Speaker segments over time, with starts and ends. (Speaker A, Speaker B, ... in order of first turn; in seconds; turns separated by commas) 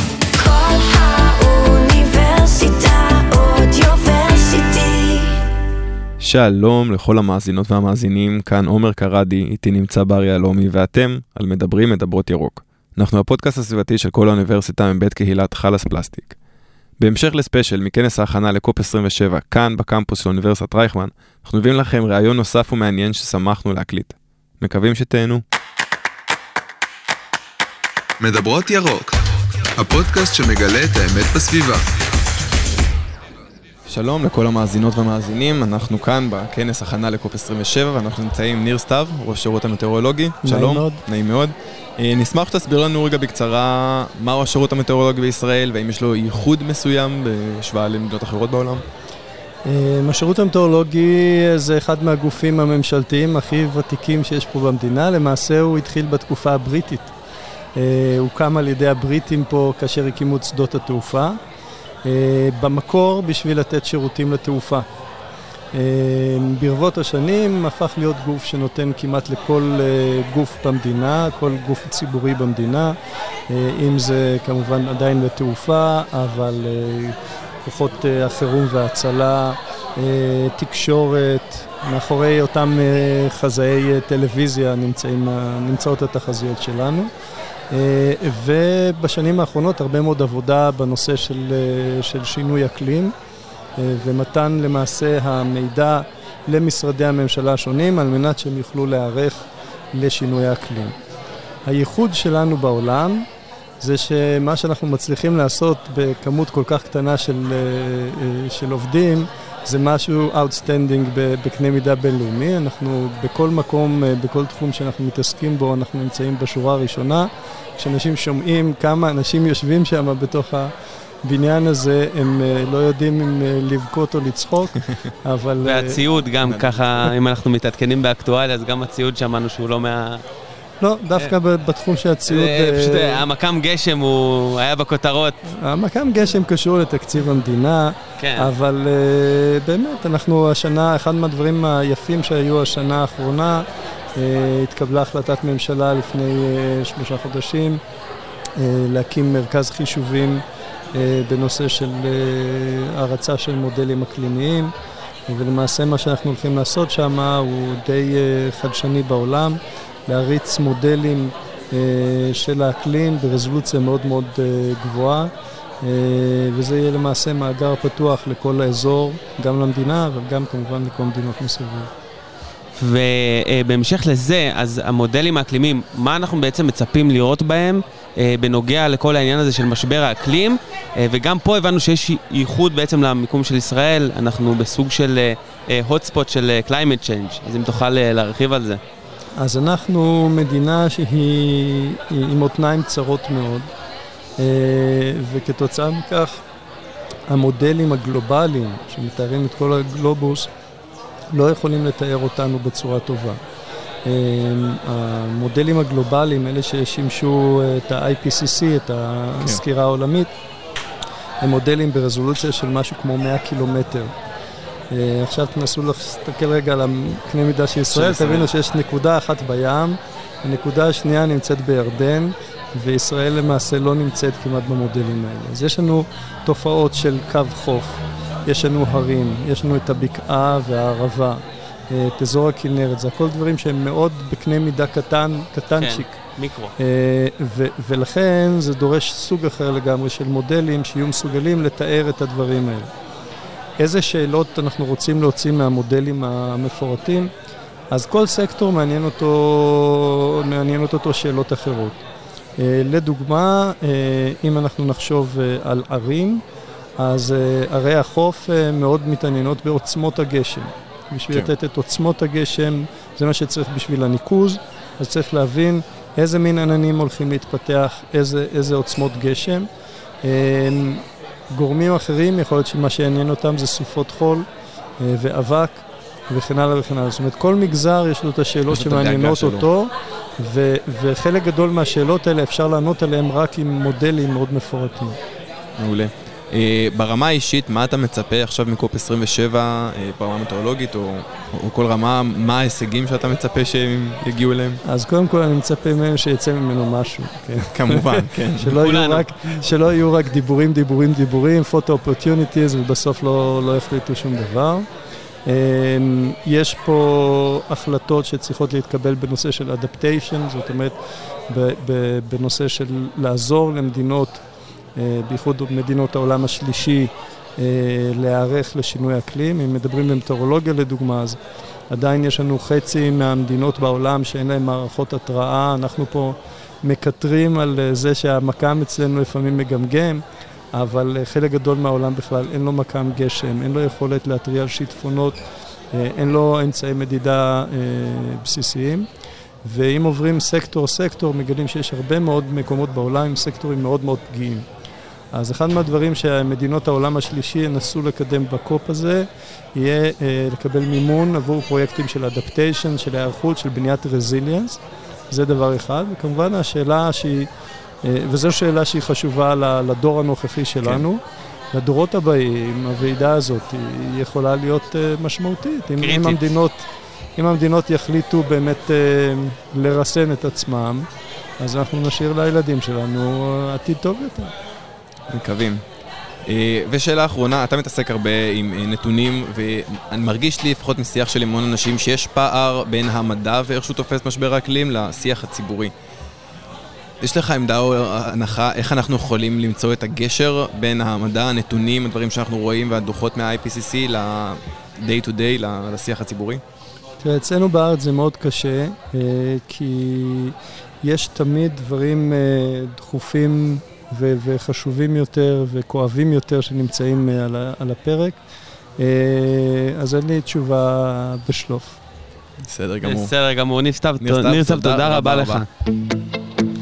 Speaker A: 0.3-5.4, Speaker B: 6.2-16.4, Speaker B: 17.0-25.4, Speaker C: 28.2-29.2, Speaker C: 29.7-31.9, Speaker B: 33.9-48.8, Speaker D: 40.4-41.0, Speaker D: 49.6-57.1, Speaker D: 57.8-61.4, Speaker D: 62.0-64.8, Speaker D: 65.7-72.9, Speaker D: 73.5-87.1, Speaker D: 87.7-93.1, Speaker D: 93.8-100.9, Speaker D: 101.7-103.3, Speaker D: 103.8-120.7, Speaker D: 121.2-126.0, Speaker E: 125.6-130.2, Speaker D: 130.8-133.2, Speaker E: 132.3-135.3, Speaker D: 135.5-143.6, Speaker E: 138.2-138.5, Speaker D: 144.2-147.8, Speaker D: 148.6-154.7, Speaker D: 155.3-165.3, Speaker D: 165.8-171.9, Speaker E: 172.8-188.8, Speaker D: 189.4-193.7, Speaker D: 194.4-196.4, Speaker D: 197.3-200.5, Speaker D: 201.3-203.4, Speaker D: 204.0-210.3, Speaker D: 211.4-214.1, Speaker D: 214.9-236.2, Speaker E: 217.9-218.5, Speaker E: 235.7-236.7, Speaker D: 236.8-242.9, Speaker D: 243.8-247.3, Speaker D: 247.9-252.0, Speaker D: 252.6-256.4, Speaker D: 257.0-269.7, Speaker D: 270.2-274.5, Speaker D: 275.0-285.2, Speaker B: 278.7-279.7, Speaker B: 285.8-294.8, Speaker D: 294.8-304.9, Speaker B: 297.7-298.8, Speaker E: 298.8-299.5, Speaker D: 305.4-310.9, Speaker D: 311.5-314.4, Speaker D: 314.9-321.4, Speaker D: 321.9-335.4, Speaker D: 335.9-339.1, Speaker D: 339.6-344.7, Speaker D: 345.3-357.5, Speaker D: 358.0-361.2, Speaker D: 361.7-371.1, Speaker E: 366.0-366.5, Speaker D: 371.6-374.5, Speaker B: 375.3-375.8, Speaker B: 376.4-385.9, Speaker B: 387.2-396.6, Speaker D: 397.2-408.4, Speaker D: 409.0-412.0, Speaker B: 412.6-413.3, Speaker E: 413.0-415.7, Speaker B: 414.2-415.6